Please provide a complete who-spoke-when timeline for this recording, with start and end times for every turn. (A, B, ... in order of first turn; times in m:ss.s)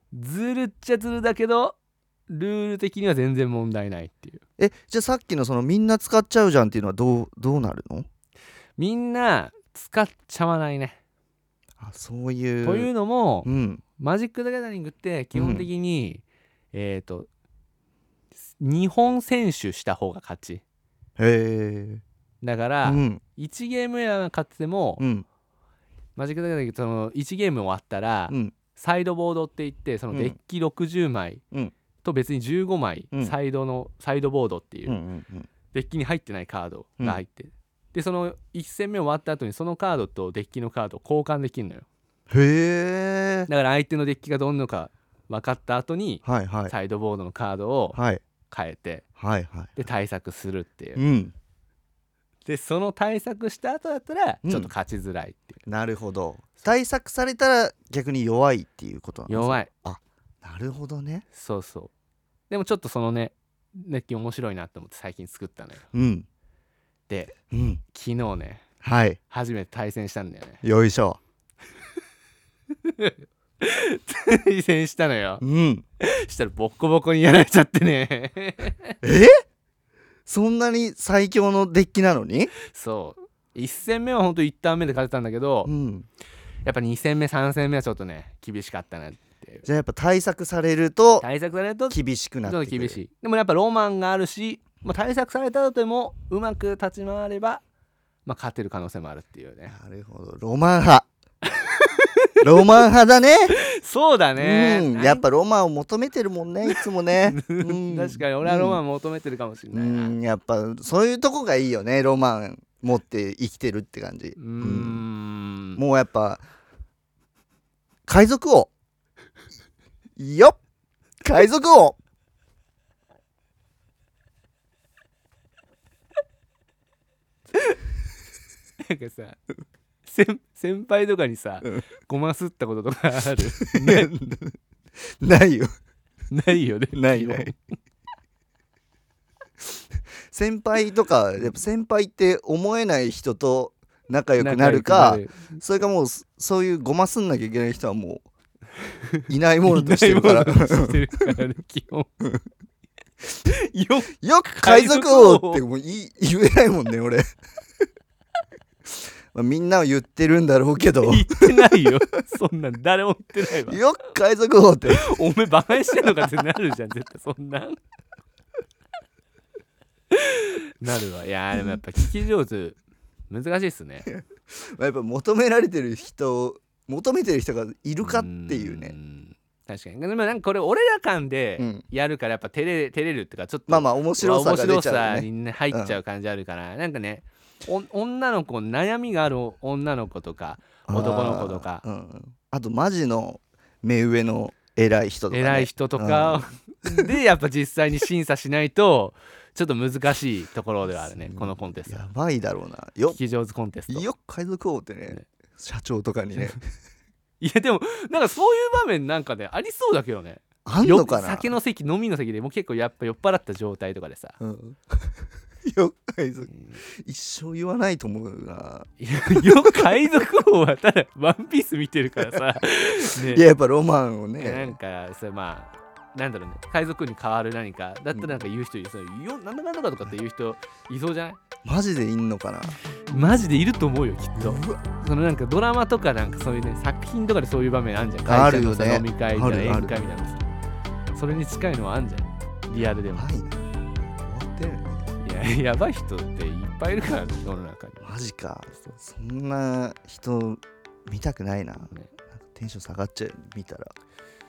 0:00.1-0:01.8 A
0:02.3-0:04.4 A
0:04.6-0:08.1 B
0:08.8-0:11.0 A
0:11.8-0:12.9 B
0:12.6-0:17.3 A
0:13.4-0:13.8 B
0:15.3-0:15.7 B
0:18.6-0:20.6 A
0:21.2-0:22.0 B
0:22.4-0:25.0 A
0:22.8-0:23.2 B
0:25.0-0:25.3 B
0:26.2-0:31.4 A
0:28.3-0:28.6 B
0:32.0-0:35.0 A
0:34.9-0:35.5 B
0:35.7-0:41.9 A
0:42.3-0:43.5 B
0:43.5-0:49.0 A
0:46.2-0:46.8 B
0:47.9-0:48.2 B
0:49.2-0:49.8 B
0:49.8-0:51.0 A
0:51.0-0:51.3 B
0:52.5-0:55.6 A
0:54.4-0:54.7 B
0:55.7-1:01.3 B
0:59.3-0:59.7 A
1:01.3-1:01.9 A
1:02.5-1:05.9 A
1:05.9-1:06.3 B
1:07.1-1:07.4 A
1:07.5-1:07.8 B
1:07.9-1:08.6 A
1:08.8-1:09.2 B
1:09.3-1:10.6 A
1:10.6-1:11.2 B
1:12.8-1:15.4 A
1:15.4-1:15.8 B
1:16.0-1:19.0 A
1:19.0-1:19.4 B
1:20.3-1:22.5 B
1:22.6-1:25.7 A
1:25.6-1:26.1 B
1:26.6-1:29.7 A
1:29.6-1:31.3 B
1:31.2-1:37.6 A
1:31.9-1:33.0 B
1:38.3-1:39.8 A
1:39.7-1:41.1 B
1:41.4-1:42.7 A
1:42.4-1:43.6 B
1:43.7-1:45.2 A
1:44.4-1:48.8 B
1:46.7-1:50.2 A
1:49.7-1:55.0 B
1:54.4-1:55.8 A
1:55.8-1:56.4 B
1:58.1-1:58.7 B
2:00.2-2:00.6 B
2:01.2-2:02.0 B
2:08.8-2:09.4 A
2:10.1-2:14.1 A
2:13.6-2:14.6 B
2:15.1-2:15.7 B
2:16.3-2:17.6 A
2:16.9-2:17.5 B
2:20.3-2:28.3 B
2:24.4-2:25.6 A
2:29.1-2:32.1 A
2:29.3-2:31.1 B
2:33.4-2:35.6 A
2:34.2-2:37.2 B
2:39.3-2:42.0 B
2:41.0-2:43.8 A
2:43.6-2:45.2 B
2:44.9-2:47.8 A
2:50.1-2:54.1 A
2:54.1-2:59.0 B
2:58.0-3:11.8 A
3:01.6-3:01.8 B
3:03.7-3:06.0 B
3:10.9-3:17.1 B
3:15.3-3:22.1 A
3:20.9-3:23.2 B
3:23.1-3:24.1 A
3:23.9-3:26.6 B
3:27.4-3:34.4 A
3:30.6-3:31.6 B
3:34.4-3:40.0 B
3:36.5-3:36.8 A
3:39.0-3:43.5 A
3:42.2-3:44.8 B
3:44.4-3:51.4 A
3:51.6-3:52.8 B
3:53.0-4:00.5 A
3:54.4-3:54.8 B
3:58.2-4:00.0 B
4:01.1-4:03.3 A
4:03.1-4:05.1 B
4:05.2-4:08.0 A
4:08.0-4:13.9 B